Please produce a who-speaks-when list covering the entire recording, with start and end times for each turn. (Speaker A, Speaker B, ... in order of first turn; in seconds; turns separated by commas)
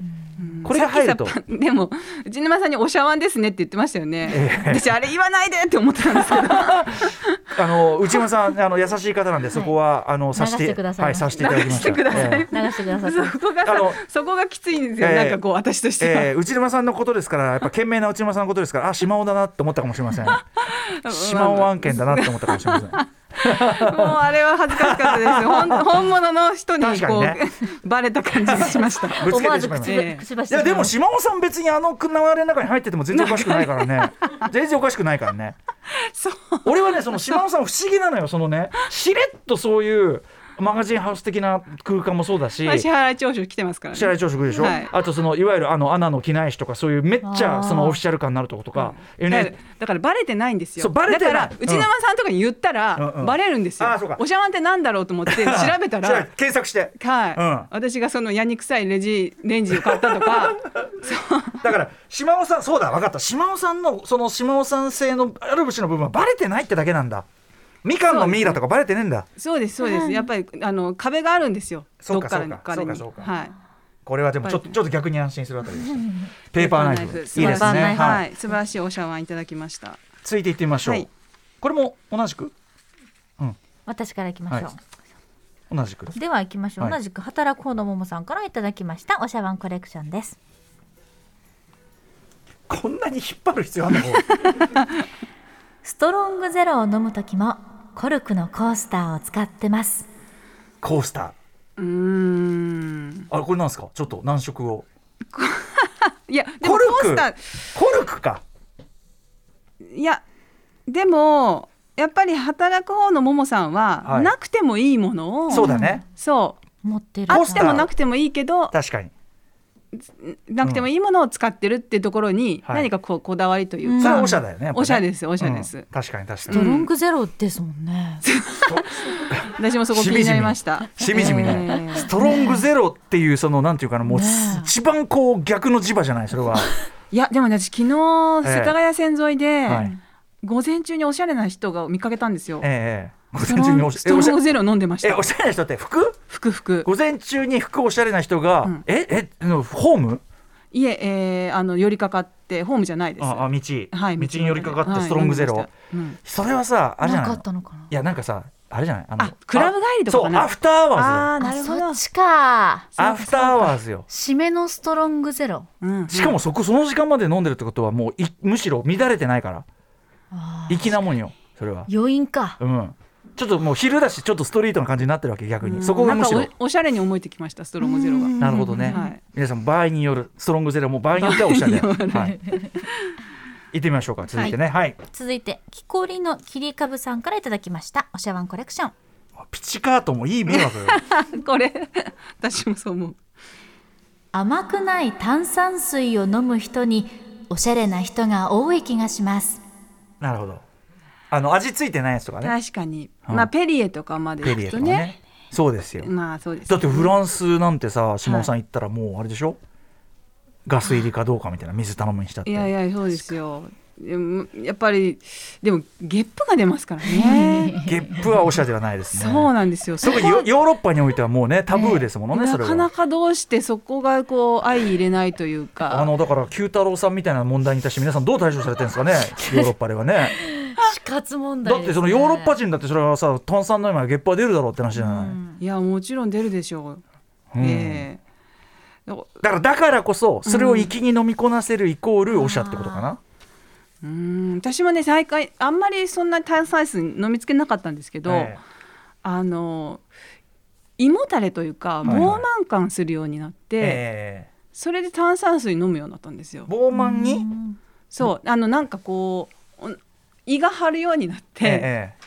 Speaker A: 0.4-7.5, Speaker B: 0.6-1.4, Speaker B: 4.3-4.8, Speaker B: 6.3-12.5, Speaker C: 10.3-13.4, Speaker A: 11.4-16.3, Speaker B: 13.6-14.0, Speaker B: 15.0-15.4, Speaker B: 16.0-20.4, Speaker A: 20.3-30.2, Speaker B: 21.1-25.9, Speaker B: 26.8-27.4, Speaker B: 28.5-35.6, Speaker C: 29.1-30.9, Speaker A: 33.1-34.4, Speaker A: 35.9-37.3, Speaker B: 36.6-42.9, Speaker A: 42.6-44.9, Speaker B: 43.9-49.5, Speaker C: 47.2-48.0, Speaker A: 48.8-56.3, Speaker B: 50.8-51.9, Speaker B: 53.0-54.2, Speaker B: 55.2-57.7, Speaker A: 57.0-61.6, Speaker B: 59.9-60.6, Speaker B: 61.6-67.2, Speaker B: 67.8-69.2, Speaker A: 68.1-68.6, Speaker A: 69.4-73.5, Speaker C: 69.8-70.2, Speaker B: 72.0-73.3, Speaker B: 74.1-78.2, Speaker A: 74.4-74.8, Speaker C: 75.9-76.3, Speaker A: 76.5-80.0, Speaker C: 77.4-78.2, Speaker B: 80.2-81.1, Speaker A: 80.8-81.1, Speaker B: 81.6-82.5, Speaker C: 83.9-84.8, Speaker B: 85.7-86.2, Speaker C: 86.1-90.4, Speaker B: 92.7-94.3, Speaker C: 95.8-100.1, Speaker B: 100.8-101.3, Speaker A: 101.8-103.3, Speaker B: 103.3-104.9, Speaker A: 105.3-107.4, Speaker B: 106.6-108.4, Speaker A: 109.8-110.2, Speaker A: 110.9-116.6, Speaker B: 114.0-114.3, Speaker B: 115.5-116.0, Speaker C: 115.5-116.0, Speaker C: 116.8-117.8, Speaker B: 117.3-117.9, Speaker A: 117.3-118.7, Speaker B: 118.7-119.1, Speaker A: 119.9-125.9, Speaker B: 120.6-120.9, Speaker C: 123.8-124.4, Speaker B: 124.0-126.6, Speaker A: 126.5-126.9, Speaker C: 126.5-128.2, Speaker A: 128.2-132.1, Speaker B: 128.7-136.7, Speaker C: 131.1-132.6, Speaker C: 134.1-134.7, Speaker A: 137.1-142.7, Speaker B: 138.4-138.8, Speaker B: 139.7-139.9, Speaker B: 142.6-144.4, Speaker A: 143.4-145.3, Speaker B: 145.0-146.2, Speaker A: 146.3-146.9, Speaker B: 146.8-150.2, Speaker A: 150.7-156.2, Speaker B: 153.2-155.7, Speaker B: 156.2-161.3, Speaker C: 157.0-157.9, Speaker A: 159.2-162.0, Speaker C: 161.4-165.7, Speaker B: 163.0-164.1, Speaker A: 165.8-166.4, Speaker B: 166.1-169.6, Speaker C: 170.3-171.0, Speaker B: 170.7-171.9, Speaker C: 171.9-172.6, Speaker B: 172.6-176.5, Speaker A: 175.6-179.2, Speaker C: 177.8-179.1, Speaker B: 178.4-182.4, Speaker A: 181.2-183.1, Speaker B: 183.7-185.0, Speaker C: 185.1-188.9, Speaker B: 189.4-191.0, Speaker A: 190.5-193.2, Speaker C: 194.3-199.6, Speaker B: 200.2-200.6, Speaker B: 201.3-202.6, Speaker A: 202.4-205.2, Speaker B: 204.4-206.1, Speaker A: 206.0-207.1, Speaker B: 206.7-209.6, Speaker A: 208.2-208.5, Speaker B: 210.7-212.7, Speaker A: 212.4-217.8, Speaker C: 217.1-218.2, Speaker B: 217.8-219.5, Speaker A: 219.1-220.5, Speaker B: 220.0-222.9, Speaker A: 222.3-226.1, Speaker B: 225.9-230.4, Speaker C: 230.4-232.6, Speaker B: 231.6-235.4, Speaker C: 234.9-235.6, Speaker A: 235.6-237.0, Speaker B: 237.5-238.1, Speaker A: 237.6-238.2, Speaker A: 239.1-239.3, Speaker B: 239.4-243.2, Speaker A: 240.4-240.9, Speaker C: 242.3-243.1, Speaker A: 244.0-248.6, Speaker B: 248.2-248.6, Speaker A: 249.2-250.0, Speaker A: 251.0-254.0, Speaker B: 252.0-252.4, Speaker B: 253.8-254.5, Speaker A: 254.7-256.7, Speaker B: 256.7-257.5, Speaker C: 256.9-257.8, Speaker A: 258.1-261.9, Speaker B: 261.6-262.1